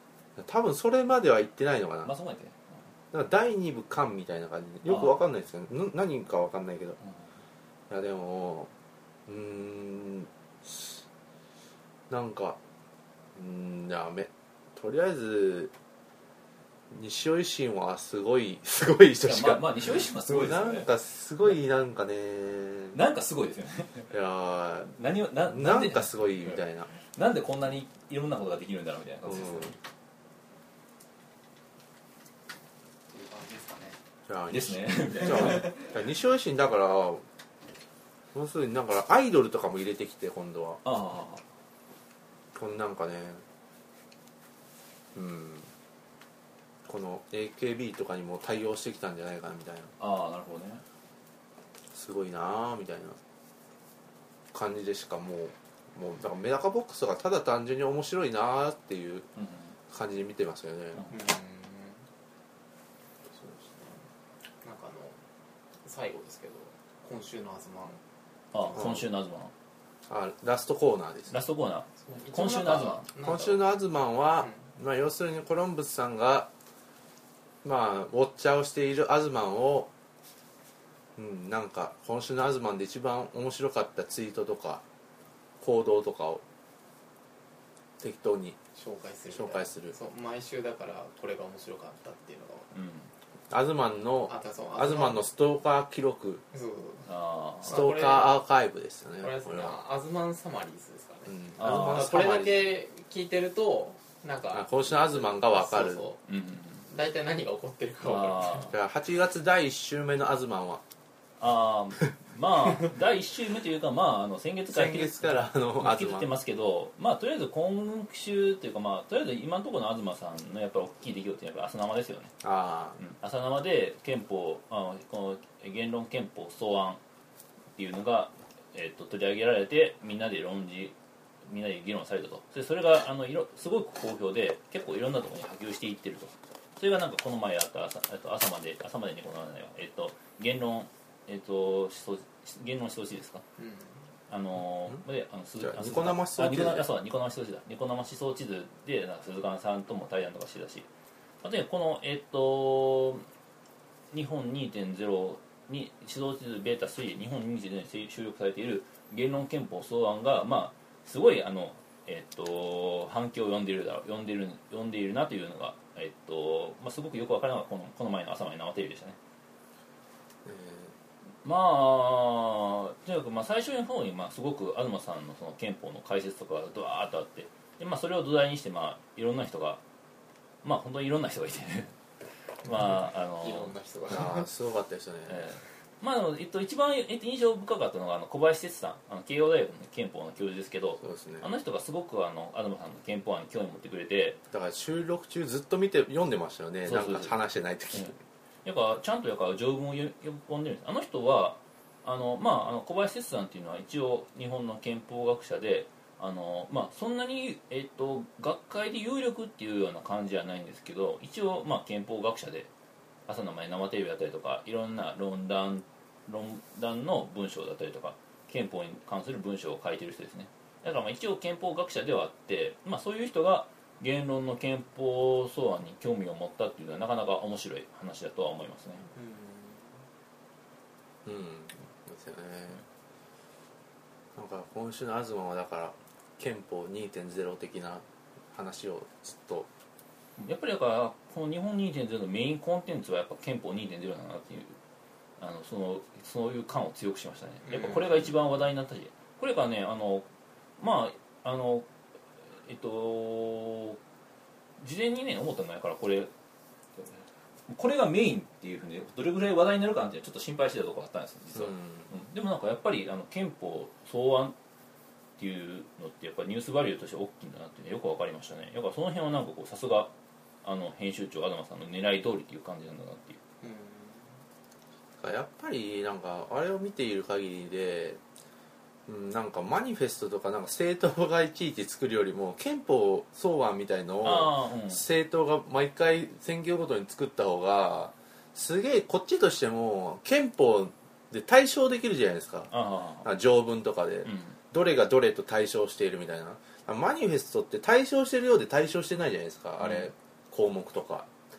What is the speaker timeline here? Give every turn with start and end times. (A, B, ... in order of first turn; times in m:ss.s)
0:00.4-0:02.1 A
0:02.0-0:02.8 B
0:03.1-0:07.0 A
0:04.8-0:05.2 B
0:07.9-0:08.7 A
0:09.3-0:11.0 A
0:12.1-0:12.6 A
0:13.3-0:15.7 A
0:16.9-0:23.0 A
0:19.2-0:20.9 B
0:22.9-0:24.1 B
0:24.1-0:24.9 A
0:24.9-0:29.8 B
0:25.5-0:26.9 A
0:29.2-0:29.7 A
0:33.1-0:34.0 C
0:34.3-0:37.2 A
0:34.5-0:35.7 B
0:38.3-0:40.8 A
0:40.8-0:41.4 B
0:42.5-0:43.4 A
0:45.1-0:45.7 A
0:46.8-0:49.9 A
0:50.0-0:50.8 B
0:51.9-0:53.2 A
0:54.5-0:59.3 A
0:59.4-0:59.7 B
0:59.9-1:01.0 A
1:01.1-1:02.0 C
1:03.3-1:04.0 C
1:04.6-1:05.2 C
1:05.8-1:08.0 C
1:08.5-1:09.5 B
1:08.7-1:09.0 A
1:10.1-1:11.3 A
1:11.3-1:13.1 B
1:12.0-1:13.6 C
1:13.2-1:16.5 A
1:17.6-1:19.9 A
1:21.2-1:24.8 A
1:25.6-1:26.4 A
1:28.0-1:28.6 A
1:28.7-1:32.7 C
1:29.3-1:29.9 A
1:32.7-1:33.1 B
1:33.5-1:36.4 A
1:34.3-1:35.2 C
1:36.5-1:37.1 C
1:37.0-1:37.9 B
1:37.6-1:38.4 C
1:37.6-1:39.8 A
1:39.2-1:46.2 C
1:41.3-1:42.7 A
1:41.6-1:42.2 B
1:44.5-1:46.0 A
1:46.2-1:46.8 B
1:46.8-1:48.7 C
1:48.0-1:48.7 B
1:48.7-1:50.8 A
1:51.4-2:02.3 B
1:54.7-1:56.3 A
2:02.4-2:03.0 A
2:03.0-2:07.0 B
2:07.7-2:23.4 B
2:23.6-2:24.0 C
2:24.3-2:30.9 B
2:25.6-2:26.9 A
2:31.4-2:33.2 B
2:34.1-2:49.2 B
2:50.4-2:50.9 A
2:51.4-2:59.8 B
3:00.6-3:01.9 B
3:02.6-3:03.7 B
3:02.8-3:04.5 C
3:04.1-3:05.5 A
3:05.3-3:14.4 B
3:11.0-3:11.5 A
3:14.5-3:18.1 A
3:16.8-3:17.3 B
3:18.6-3:32.7 B
3:33.3-3:49.0 B
3:49.1-3:50.0 C
3:51.2-3:52.8 A
3:54.3-3:59.7 A
4:00.4-4:04.8 B
4:05.4-4:10.2 B
4:07.6-4:08.0 C
4:10.8-4:11.9 B
4:12.6-4:14.0 B
4:14.8-4:16.3 B
4:17.0-4:24.6 B
4:21.5-4:22.1 A
4:25.4-4:30.1 B
4:30.6-4:33.4 B
4:33.6-4:34.3 C
4:35.2-4:38.2 A
4:39.1-4:52.7 A
4:44.2-4:45.0 B
4:52.7-4:53.3 B
4:53.2-5:01.3 A
4:54.2-4:54.6 B
4:59.8-5:00.1 B